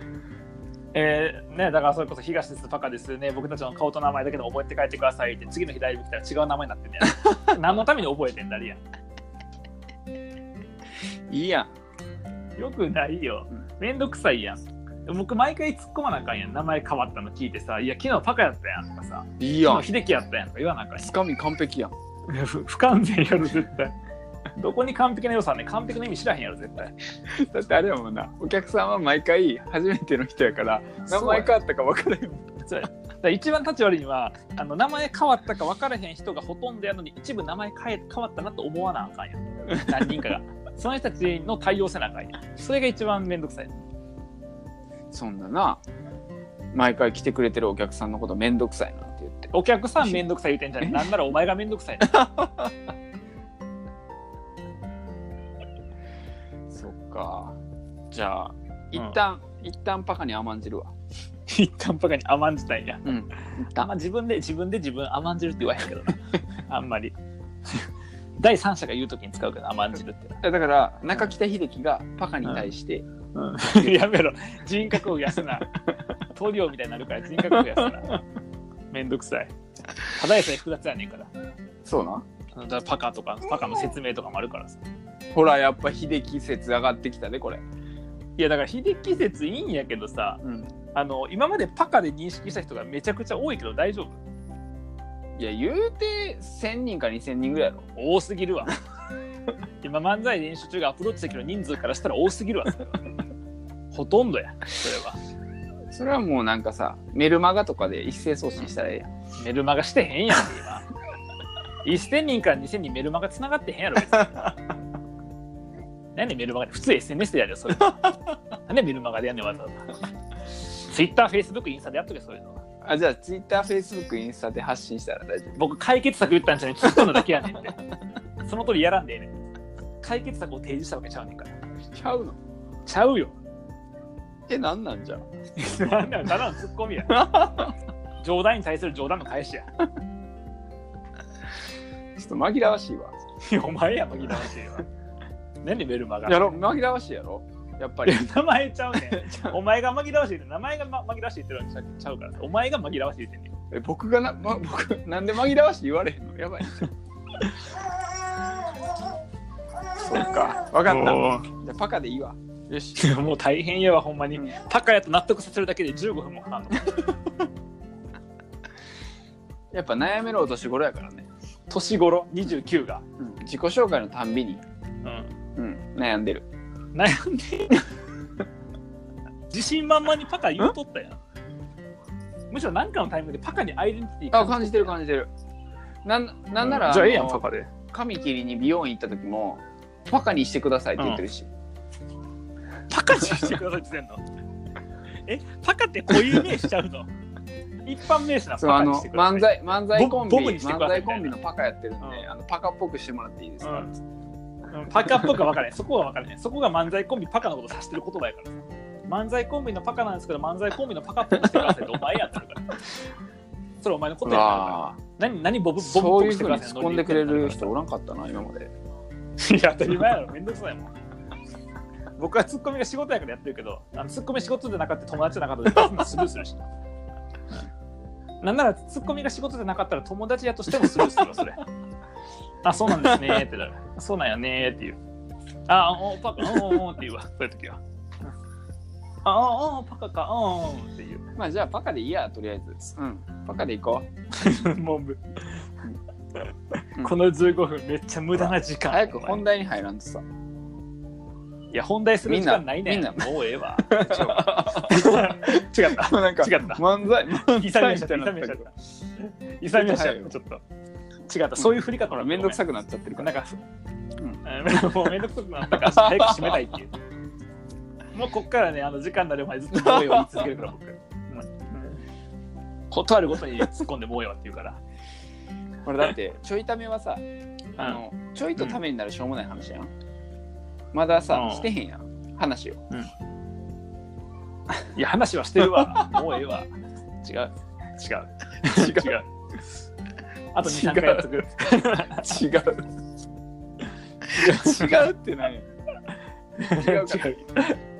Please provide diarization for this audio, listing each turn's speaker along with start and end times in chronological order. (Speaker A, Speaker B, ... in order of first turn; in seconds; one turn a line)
Speaker A: 0.9-8.8
Speaker B: 11.3-11.7
Speaker A: 12.6-21.1
Speaker B: 19.4-19.9
Speaker B: 21.0-21.9
Speaker A: 22.3-23.9
Speaker A: 24.5-26.9
Speaker B: 27.3-32.5
Speaker A: 31.1-31.5
Speaker A: 32.6-43.7
Speaker B: 45.1-45.8
Speaker B: 46.7-50.2
Speaker A: 49.5-52.2
Speaker B: 50.8-51.2
Speaker B: 52.0-52.9
Speaker B: 56.7-57.6
Speaker B: 58.1-60.9
Speaker A: 61.5-63.1
Speaker B: 63.0-63.9
Speaker A: 63.8-67.1
Speaker A: 68.4-70.4
Speaker B: 70.4-73.0
Speaker A: 73.3-75.7
Speaker A: 76.3-78.2
Speaker A: 78.9-79.5
Speaker A: 80.0-81.3
Speaker B: 81.8-82.2
Speaker A: 82.5-84.8
Speaker B: 85.3-87.6
Speaker A: 88.4-90.4
Speaker B: 90.4-90.7
Speaker A: 90.9-94.2
Speaker B: 95.4-97.9
Speaker A: 98.0-98.8
Speaker A: 99.8-103.0
Speaker A: 103.9-105.2
Speaker B: 105.9-109.1
Speaker A: 109.4-110.9
Speaker A: 111.8-114.6
Speaker A: 116.1-119.9
Speaker A: 120.6-122.6
Speaker B: 122.8-125.6
Speaker A: 125.6-127.8
Speaker A: 128.4-129.3
Speaker A: 130.0-131.5
Speaker B: 131.9-132.3
Speaker A: 132.8-133.3
Speaker B: 134.5-135.2
Speaker A: 135.6-137.4
Speaker B: 137.1-137.7
Speaker A: 138.2-139.7
Speaker B: 142.2-143.2
Speaker A: 143.4-144.9
Speaker A: 145.6-146.6
Speaker B: 146.2-148.3
Speaker A: 148.0-153.5
Speaker B: 149.0-149.6
Speaker B: 153.7-156.9
Speaker B: 160.0-163.0
Speaker A: 160.9-161.5
Speaker A: 162.9-167.1
Speaker B: 169.7-171.3
Speaker A: 171.7-173.0
Speaker B: 173.2-174.6
Speaker A: 175.0-175.3
Speaker B: 175.6-176.4
Speaker A: 176.9-177.8
Speaker A: 179.5-181.2
Speaker A: 182.5-184.9
Speaker B: 184.3-185.3
Speaker B: 186.0-191.5
Speaker A: 186.6-187.7
Speaker A: 191.0-191.2
Speaker A: 192.9-194.2
Speaker A: 195.3-197.1
Speaker A: 197.8-201.3
Speaker B: 198.6-203.9
Speaker A: 203.6-203.9
Speaker A: 204.7-212.8
Speaker A: 213.8-217.7
Speaker B: 214.2-215.0
Speaker B: 215.8-218.7
Speaker A: 219.4-220.9
Speaker A: 222.2-226.7
Speaker A: 228.4-231.6
Speaker A: 232.6-235.0
Speaker B: 232.9-233.4
Speaker A: 235.7-237.8
Speaker A: 239.2-241.2
Speaker B: 241.3-244.1
Speaker A: 244.3-245.6
Speaker A: 247.0-249.4
Speaker B: 248.3-250.2
Speaker A: 251.7-260.6
Speaker B: 252.3-258.7
Speaker B: 259.7-260.3
Speaker A: 261.3-262.6
Speaker B: 261.6-263.3
Speaker A: 263.2-263.6
Speaker A: 264.4-266.9
Speaker B: 265.7-266.6
Speaker A: 268.1-272.0
Speaker B: 269.7-270.5
Speaker A: 272.9-274.8
Speaker B: 275.8-277.2
Speaker B: 277.8-279.9
Speaker B: 280.9-282.8
Speaker A: 281.3-281.7
Speaker A: 284.9-286.7
Speaker A: 287.2-289.2
Speaker B: 288.6-289.2
Speaker A: 290.5-292.4
Speaker B: 290.6-292.8
Speaker B: 294.3-295.7
Speaker A: 294.3-295.0
Speaker A: 296.6-297.8
Speaker B: 296.7-297.4